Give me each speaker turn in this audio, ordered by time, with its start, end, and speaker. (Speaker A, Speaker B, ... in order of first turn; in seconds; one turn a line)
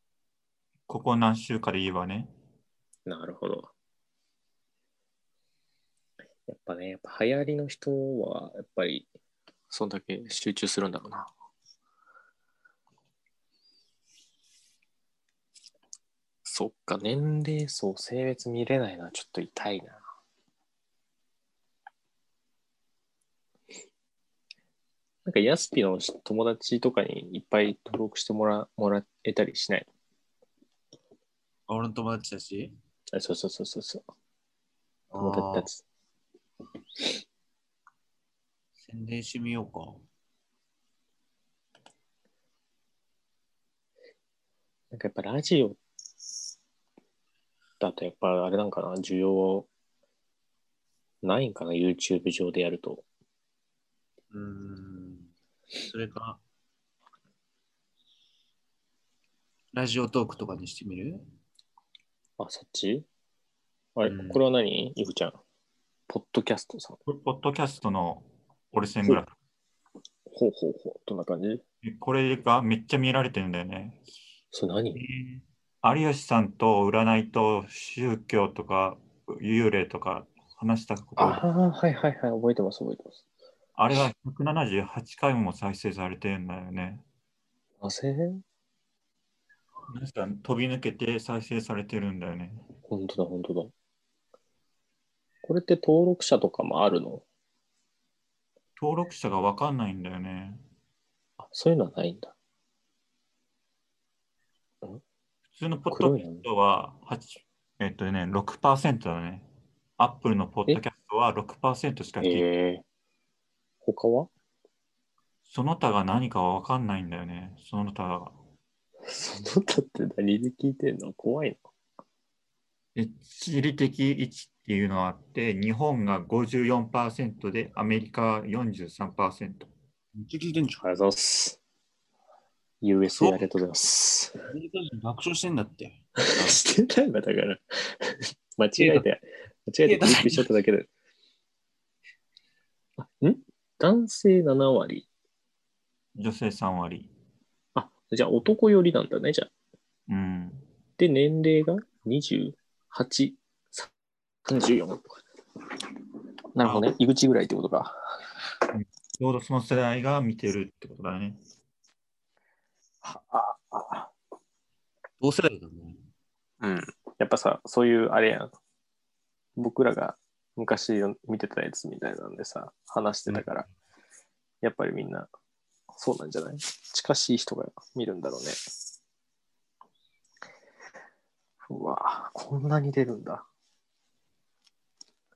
Speaker A: 0.9-2.3
Speaker B: 3.1-3.7
Speaker B: 6.5-9.1
Speaker B: 9.7-11.3
Speaker B: 16.4-20.0
Speaker B: 25.2-29.9
Speaker C: 31.7-32.7
Speaker B: 33.1-34.0
Speaker C: 35.1-35.7
Speaker B: 35.2-35.8
Speaker C: 38.8-40.0
Speaker B: 44.9-45.8
Speaker B: 47.8-49.7
Speaker B: 51.2-53.0
Speaker C: 54.3-56.4
Speaker C: 59.7-61.2
Speaker B: 62.4-63.1
Speaker B: 64.0-65.4
Speaker C: 64.1-64.4
Speaker B: 66.1-67.0
Speaker A: 67.1-69.3
Speaker B: 70.3-71.6
Speaker A: 71.8-74.0
Speaker B: 74.5-75.0
Speaker C: 75.0-75.4
Speaker A: 75.8-81.4
Speaker B: 81.2-83.2
Speaker A: 83.8-87.0
Speaker B: 87.8-88.4
Speaker A: 89.9-92.6
Speaker B: 92.9-93.7
Speaker B: 95.4-97.2
Speaker A: 98.8-100.6
Speaker B: 101.4-102.3
Speaker A: 105.5-109.5
Speaker B: 105.9-106.5
Speaker A: 110.0-112.5
Speaker B: 112.2-112.8
Speaker B: 113.8-114.3
Speaker A: 115.5-118.4
Speaker B: 119.1-121.6
Speaker A: 123.0-129.7
Speaker C: 130.2-130.8
Speaker B: 130.8-131.6
Speaker B: 132.8-134.3
Speaker C: 133.1-133.5
Speaker C: 134.5-136.6
Speaker B: 136.2-140.9
Speaker C: 138.8-139.1
Speaker C: 139.8-140.5
Speaker B: 143.0-145.1
Speaker A: 146.2-147.1
Speaker B: 147.8-149.5
Speaker A: 150.1-150.7
Speaker B: 151.0-153.9
Speaker B: 154.5-155.2
Speaker B: 156.6-157.9
Speaker A: 156.6-156.9
Speaker A: 158.7-161.4
Speaker B: 163.0-164.1
Speaker C: 165.2-166.0
Speaker B: 166.6-168.5
Speaker B: 169.6-173.7
Speaker B: 174.6-175.3
Speaker B: 175.9-178.6
Speaker B: 181.7-183.4